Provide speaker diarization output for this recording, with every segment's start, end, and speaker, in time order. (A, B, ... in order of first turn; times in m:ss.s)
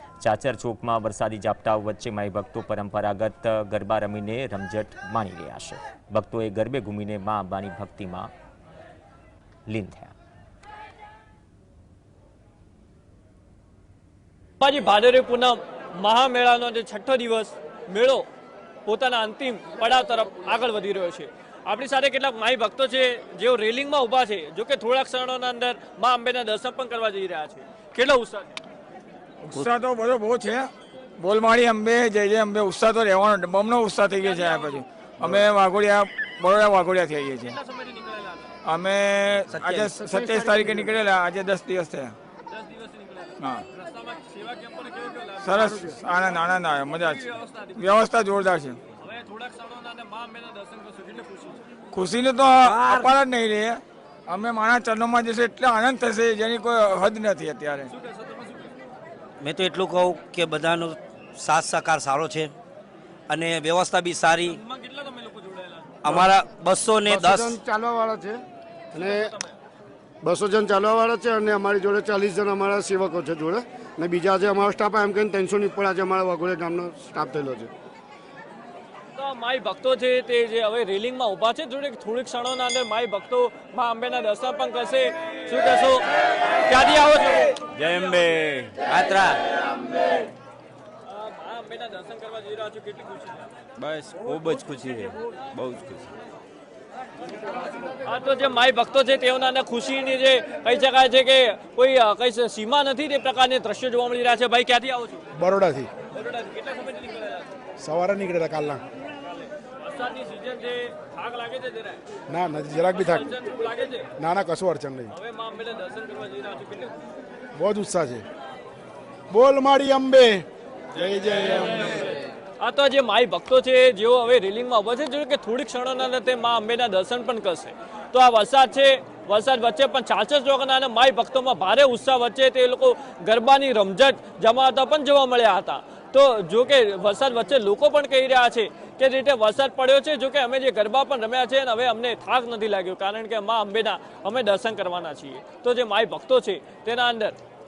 0:00.2-0:08.3 A
0:09.7-0:10.1 A
0:14.6-0:18.3 B
0:18.9-0:28.6 B
0:29.4-0:37.6 C
0:34.2-0:34.8 B
0:37.4-0:38.5 B
0:38.6-0:42.2 C
0:39.5-0:40.9 D
0:42.5-0:45.8 B
0:43.4-0:43.6 C
0:45.4-0:48.8 C
0:47.1-0:47.8 B
0:49.0-0:51.6 B
0:51.9-0:57.9 C
0:57.9-0:58.7 B
0:59.4-1:02.5 D
1:03.3-1:04.6 D
1:04.4-1:06.1 B
1:06.0-1:07.5 D
1:06.1-1:06.4 E
1:07.0-1:08.4 E
1:08.9-1:09.3 E
1:08.9-1:09.5 B
1:10.2-1:17.7 E
1:19.2-1:26.1 B
1:26.7-1:27.7 B
1:27.8-1:28.8 F
1:28.8-1:29.4 D
1:31.1-1:33.5 B
1:33.8-1:36.1 F
1:38.0-1:45.3 B
1:45.3-1:45.9 G
1:46.1-1:47.5 B
1:47.8-1:48.8 G
1:49.4-1:52.0 B
1:52.3-1:53.3 G
1:53.0-1:54.1 B
1:54.2-1:55.1 G
1:55.1-1:57.0 B
1:57.6-1:58.2 G
1:59.3-2:02.1 G
2:02.6-2:27.4 B